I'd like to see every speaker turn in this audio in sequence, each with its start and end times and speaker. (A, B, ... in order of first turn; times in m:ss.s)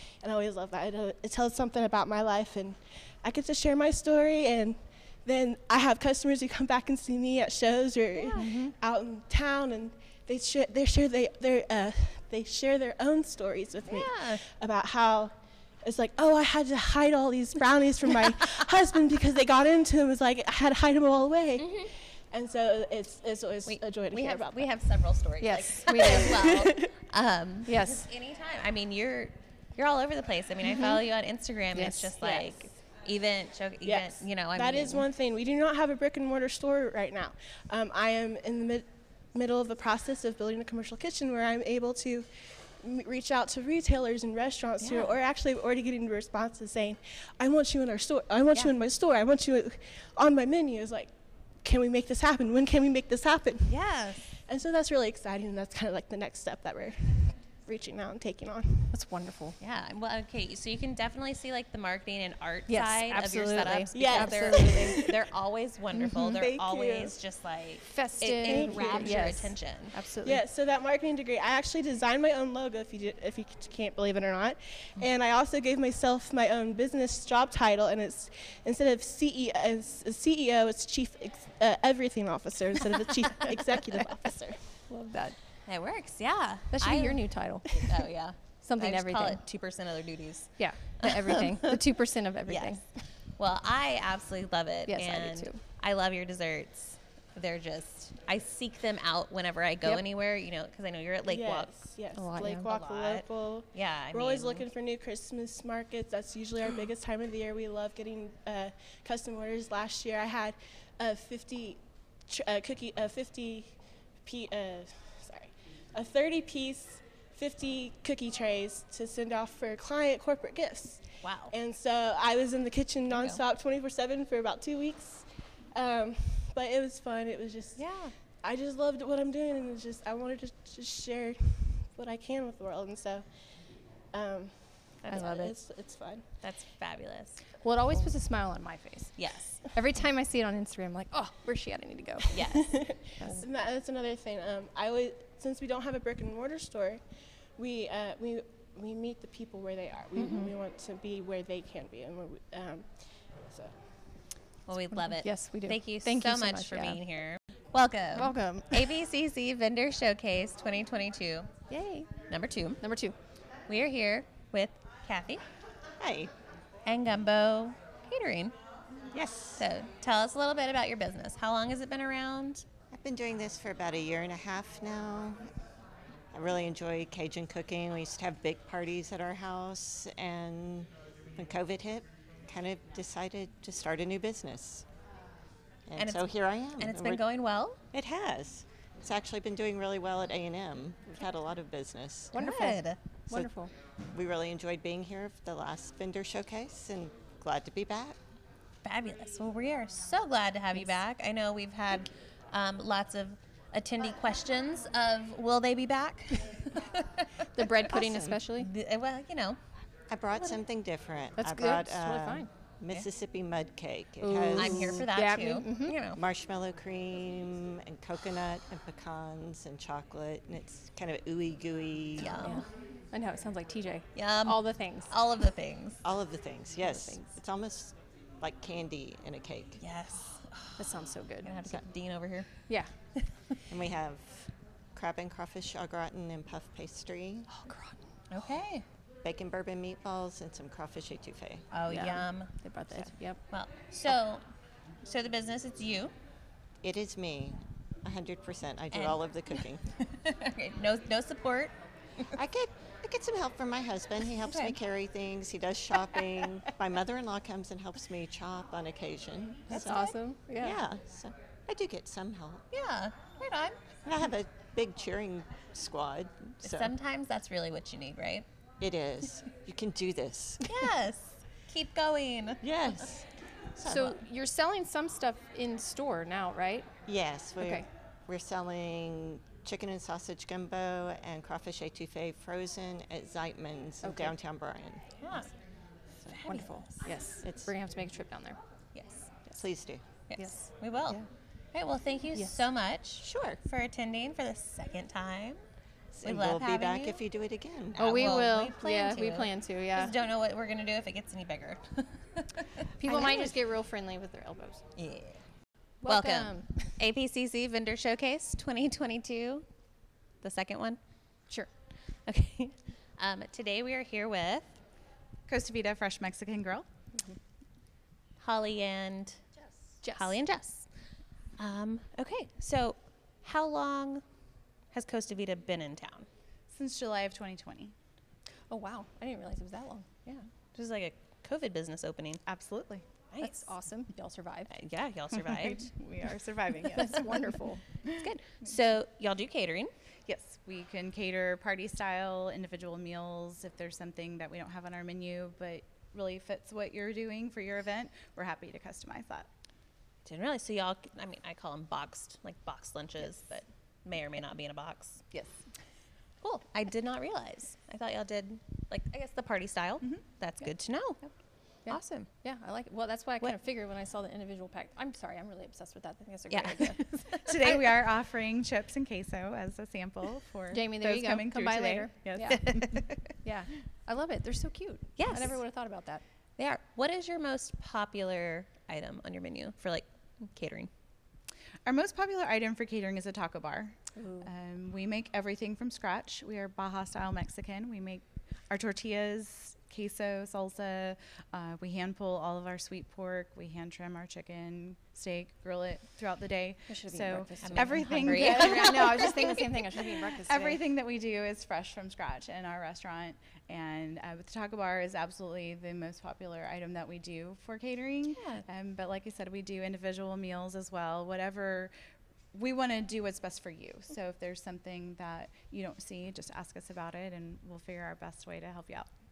0:00.2-0:25.1 A
0:08.2-0:08.8 B
0:08.4-0:08.7 C
0:13.8-0:14.4 C
0:21.6-0:21.9 C
0:23.6-0:35.0 C
0:25.4-0:26.7 B
0:26.6-0:26.9 A
0:27.6-0:28.1 B
0:30.6-0:31.1 B
0:31.7-0:32.3 B
0:32.3-0:32.6 A
0:33.8-0:42.3 A
0:42.8-0:51.1 A
0:44.8-0:45.1 C
0:51.6-0:53.8 A
0:53.6-0:54.3 C
0:54.4-0:58.9 A
0:58.9-0:59.6 B
0:59.6-1:09.9 C
1:02.7-1:05.1 B
1:04.0-1:05.0 A
1:05.9-1:06.5 B
1:06.5-1:07.2 A
1:07.8-1:10.5 B
1:08.5-1:09.1 A
1:10.3-1:24.6 A
1:23.4-1:25.4 B
1:25.6-1:31.7 C
1:26.7-1:27.9 B
1:28.6-1:29.5 B
1:30.6-1:33.1 B
1:32.5-1:32.8 C
1:33.4-1:41.7 C
1:34.9-1:35.6 B
1:41.2-2:07.8 A
1:42.1-1:42.8 B
1:42.6-1:44.6 C
2:01.2-2:01.5 C
2:03.1-2:03.4 C
2:07.8-2:08.1 C
2:08.4-2:13.3 A
2:14.1-2:16.3 A
2:15.0-2:15.6 C
2:16.4-2:17.4 C
2:17.6-2:23.5 B
2:19.2-2:19.6 C
2:22.3-2:23.4 C
2:22.7-2:27.0 A
2:27.6-2:33.8 A
2:30.2-2:30.5 C
2:34.7-2:41.5 C
2:34.9-2:37.0 B
2:38.1-2:38.9 B
2:41.7-2:42.1 B
2:42.3-2:42.8 C
2:42.8-2:43.2 B
2:43.7-2:45.4 C
2:46.0-2:46.3 D
2:46.8-2:48.5 C
2:49.1-2:49.6 D
2:49.5-2:52.6 C
2:52.9-2:55.4 D
2:56.3-3:04.8 D
3:05.9-3:07.2 D
3:06.0-3:07.8 C
3:07.9-3:12.3 D
3:12.3-3:13.7 B
3:12.3-3:13.0 C
3:14.1-3:18.2 D
3:18.8-3:27.3 C
3:20.7-3:21.0 B
3:27.5-3:28.7 B
3:28.0-3:28.4 D
3:28.6-3:29.6 C
3:30.1-3:35.0 D
3:31.4-3:32.5 B
3:34.2-3:36.0 B
3:34.5-3:36.2 C
3:36.1-3:42.5 D
3:42.2-3:42.6 C
3:42.3-3:45.2 B
3:44.1-3:46.0 C
3:46.0-3:49.8 D
3:46.8-3:47.3 B
3:49.8-3:52.5 C
3:50.8-3:51.6 B
3:52.7-3:52.9 B
3:53.7-3:57.5 D
3:57.5-3:58.4 B
3:58.3-3:58.8 C
3:59.2-4:01.6 D
4:01.7-4:04.4 C
4:01.8-4:03.4 B
4:05.0-4:06.1 C
4:06.8-4:09.8 D
4:08.9-4:11.8 C
4:12.3-4:22.6 D
4:14.4-4:14.8 C
4:19.7-4:20.1 C
4:19.7-4:20.8 B
4:22.7-4:23.8 C
4:24.0-4:26.9 D
4:26.6-4:28.4 C
4:28.8-4:30.6 D
4:30.6-4:33.0 C
4:32.6-4:34.2 D
4:33.8-4:36.9 B
4:37.1-4:45.1 D
4:37.6-4:37.9 B
4:44.0-4:44.4 B
4:45.2-4:45.5 C
4:46.2-4:46.9 D
4:46.2-4:47.0 C
4:46.5-4:48.6 B
4:47.4-4:47.7 D
4:48.9-4:49.3 C
4:49.5-4:50.0 D
4:50.3-4:51.2 C
4:50.4-4:50.7 B
4:51.7-4:55.6 C
4:53.2-4:53.6 D
4:56.1-4:58.5 D
4:56.2-4:57.2 C
4:58.0-5:00.2 B
4:58.1-5:03.5 C
5:03.0-5:04.8 B
5:05.0-5:05.4 C
5:06.0-5:07.0 B
5:06.0-5:09.6 C
5:10.4-5:11.0 C
5:12.3-5:14.8 C
5:15.5-5:16.9 E
5:18.4-5:19.4 C
5:20.0-5:20.4 B
5:20.1-5:20.9 C
5:21.6-5:24.2 C
5:24.9-5:26.3 C
5:26.7-5:27.9 E
5:28.7-5:30.1 B
5:30.2-5:32.4 C
5:32.4-5:33.0 E
5:33.3-5:33.7 C
5:33.4-5:34.8 B
5:34.7-5:35.9 C
5:35.3-5:38.2 E
5:36.9-5:37.8 B
5:38.1-5:39.9 C
5:40.2-5:49.5 E
5:50.2-5:55.2 C
5:55.3-5:55.6 E
5:56.4-6:01.2 C
6:01.9-6:07.1 B
6:01.9-6:02.3 C
6:06.3-6:07.9 C
6:06.9-6:13.3 E
6:10.7-6:12.6 B
6:12.4-6:13.3 C
6:13.4-6:16.2 B
6:15.2-6:15.6 C
6:16.6-6:20.9 C
6:21.8-6:51.9 E
6:36.9-6:40.9 B
6:37.6-6:39.6 C
6:48.3-6:48.6 C
6:52.5-6:59.1 E